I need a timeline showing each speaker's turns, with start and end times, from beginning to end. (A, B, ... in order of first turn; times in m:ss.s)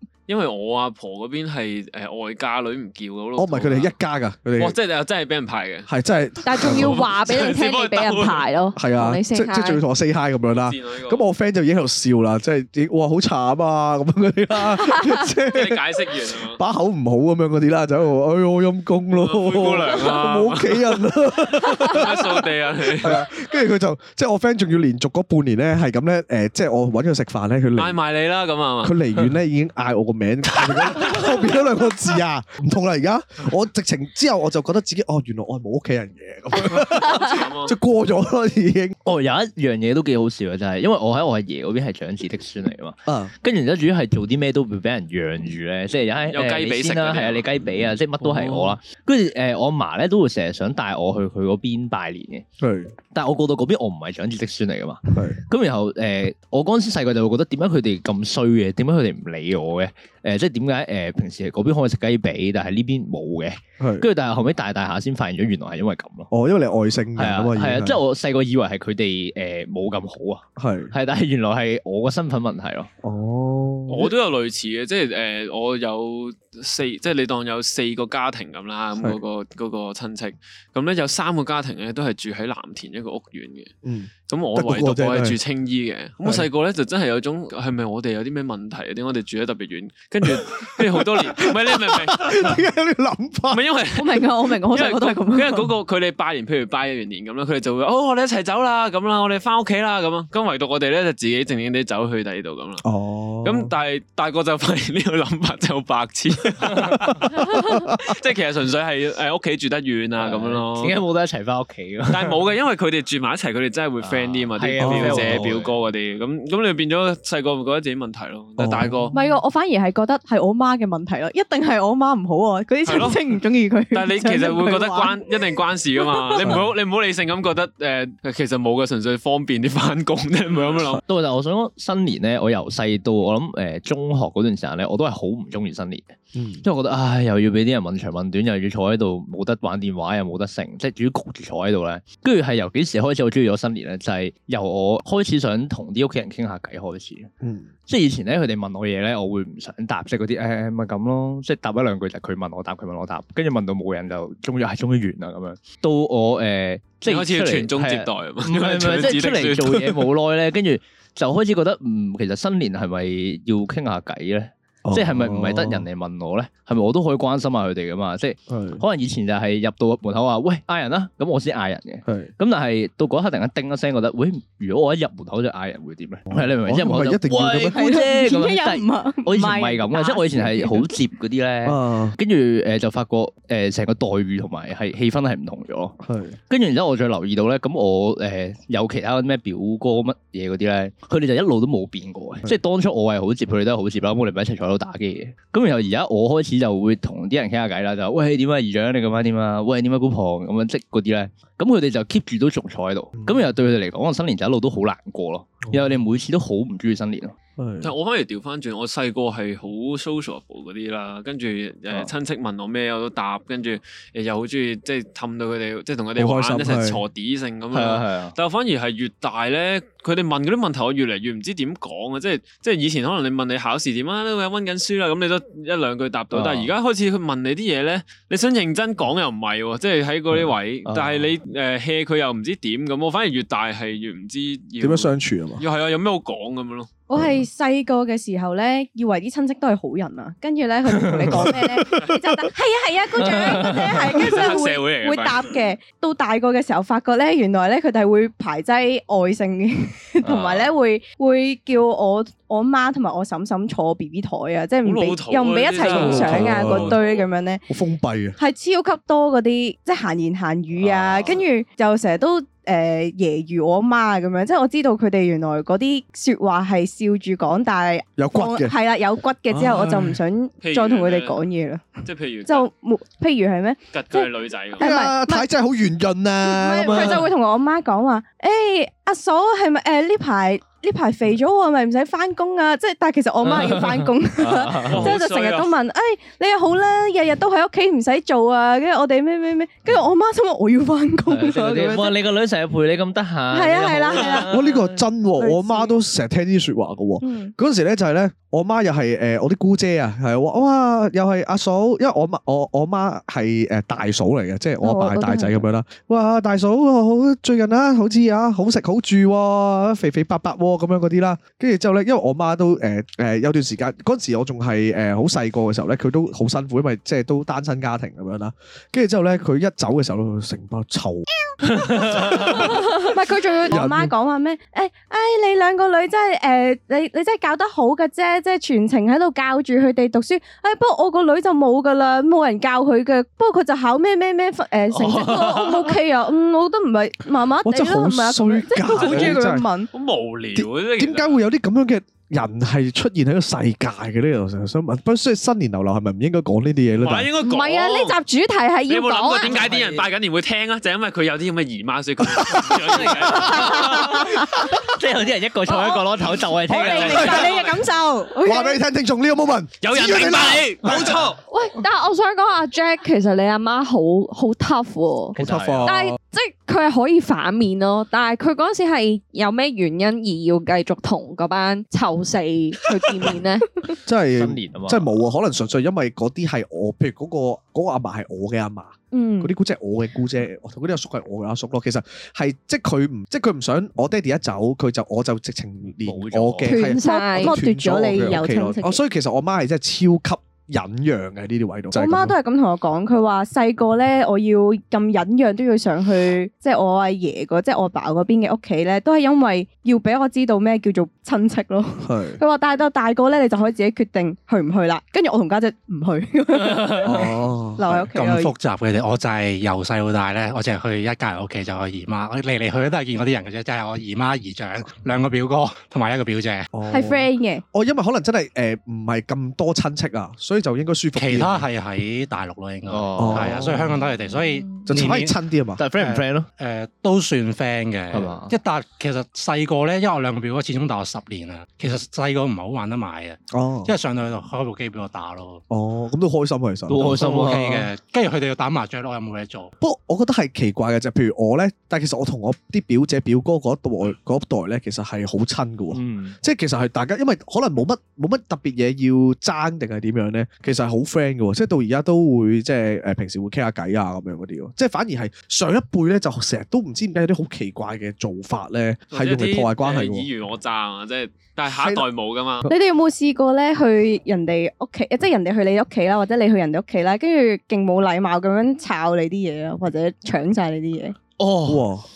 0:00.3-0:03.9 A
0:03.4-0:04.8 B
0:04.6-0:05.9 A
0:05.9-0:07.0 B
0:06.4-0:09.8 C
0:06.5-0:08.5 A
0:08.8-0:15.8 B
0:10.5-0:11.2 A
0:15.5-0:16.6 A
0:16.5-0:28.0 B
0:19.2-0:21.0 A
0:21.8-0:23.2 A
0:27.8-0:29.0 A
0:28.8-0:39.0 B
0:30.7-0:31.2 A
0:36.7-0:37.8 A
0:39.0-0:52.5 D
0:43.1-0:43.3 B
0:46.3-0:47.5 A
0:48.3-0:48.7 B
0:52.6-0:52.9 B
0:53.1-1:06.3 D
0:55.2-0:55.4 B
1:03.8-1:04.1 B
1:06.3-1:08.0 B
1:07.2-1:12.9 D
1:10.6-1:10.9 B
1:13.0-1:14.1 B
1:13.9-1:23.7 A
1:23.8-1:25.4 B
1:24.3-1:32.6 A
1:30.2-1:33.6 B
1:33.5-1:42.8 A
1:34.0-1:35.6 C
1:34.2-1:34.6 E
1:42.8-1:43.7 B
1:43.4-1:51.0 A
1:47.4-1:48.2 B
1:50.2-1:52.4 D
1:52.1-1:59.2 A
1:54.0-1:55.7 D
1:54.8-1:55.5 B
1:58.6-1:59.3 B
1:59.1-2:05.3 E
2:02.8-2:03.2 A
2:03.9-2:11.0 A
2:06.4-2:06.7 B
2:11.0-2:27.3 D
2:16.4-2:16.6 B
2:27.4-2:27.7 B
2:27.9-3:06.0 D
2:37.0-2:40.1 A
2:44.8-2:45.9 B
2:48.5-2:48.8 B
2:52.1-2:52.3 B
2:56.3-2:57.8 B
2:57.6-3:00.9 E
3:01.6-3:02.2 B
3:06.0-3:06.4 B
3:06.5-3:27.4 D
3:23.2-3:23.5 B
3:25.7-3:25.9 B
3:27.6-3:27.9 B
3:27.8-3:56.9 A
3:36.2-3:37.0 B
3:37.7-3:38.4 D
3:46.3-3:46.7 D
3:50.9-3:51.3 D
3:54.8-3:55.6 B
3:57.1-4:17.6 E
4:00.9-4:01.5 D
4:01.8-4:02.3 B
4:03.2-4:04.4 D
4:04.0-4:05.5 A
4:10.2-4:10.7 D
4:14.8-4:17.2 A
4:15.8-4:17.0 B
4:17.7-4:18.4 B
4:18.4-4:35.5 E
4:20.8-4:21.4 D
4:28.2-4:28.7 B
4:29.5-4:30.2 B
4:30.6-4:31.4 A
4:32.0-4:32.7 A
4:33.9-4:34.8 A
4:34.8-4:37.3 B
4:36.4-4:52.2 E
4:36.8-4:37.3 D
4:43.4-4:45.2 D
4:44.8-4:45.7 A
4:51.3-4:55.0 D
4:53.5-4:54.5 E
4:54.5-5:21.2 B
4:55.4-4:55.9 E
4:57.2-4:57.5 E
5:04.8-5:05.6 E
5:21.9-5:22.9 B
5:22.8-5:39.9 E
5:23.7-5:24.1 B
5:34.9-5:35.9 D
5:37.6-5:39.7 B
5:39.0-5:39.4 A
5:39.9-5:41.4 A
5:40.6-5:47.3 B
5:47.0-5:48.2 A
5:47.4-5:49.6 C
5:48.9-5:54.2 A
5:49.4-5:50.1 D
5:52.4-5:53.3 B
5:52.8-5:57.5 D
5:55.7-5:56.1 E
5:56.6-5:58.8 E
5:56.8-5:57.8 A
5:57.1-5:57.5 B
5:58.4-6:01.3 B
5:59.8-6:01.4 A
6:01.5-6:13.7 C
6:05.4-6:06.2 B
6:05.4-6:05.9 D
6:14.0-6:32.4 B
6:14.4-6:15.1 D
6:19.1-6:19.5 E
6:26.0-6:26.8 D
6:26.7-6:27.6 C
6:26.8-6:29.0 E
6:31.9-6:48.5 E
6:42.0-6:42.4 B
6:46.8-6:47.1 D
6:47.0-6:48.0 B
6:48.1-6:56.7 F
6:56.7-7:01.7 B
6:56.9-6:57.6 E
7:01.2-7:05.4 F
7:02.9-7:03.9 D
7:03.2-7:03.9 B
7:04.8-7:05.8 B
7:04.9-7:05.2 D
7:05.8-7:06.5 D
7:05.9-7:15.6 F
7:08.1-7:08.5 D
7:13.5-7:13.9 B
7:15.7-7:17.2 B
7:16.9-7:17.9 D
7:17.0-7:19.7 F
7:19.8-7:40.3 B
7:25.9-7:26.4 D
7:39.1-7:42.7 A
7:41.7-7:42.0 B
7:42.7-7:51.2 E
7:51.4-7:51.9 D
7:51.7-7:52.1 B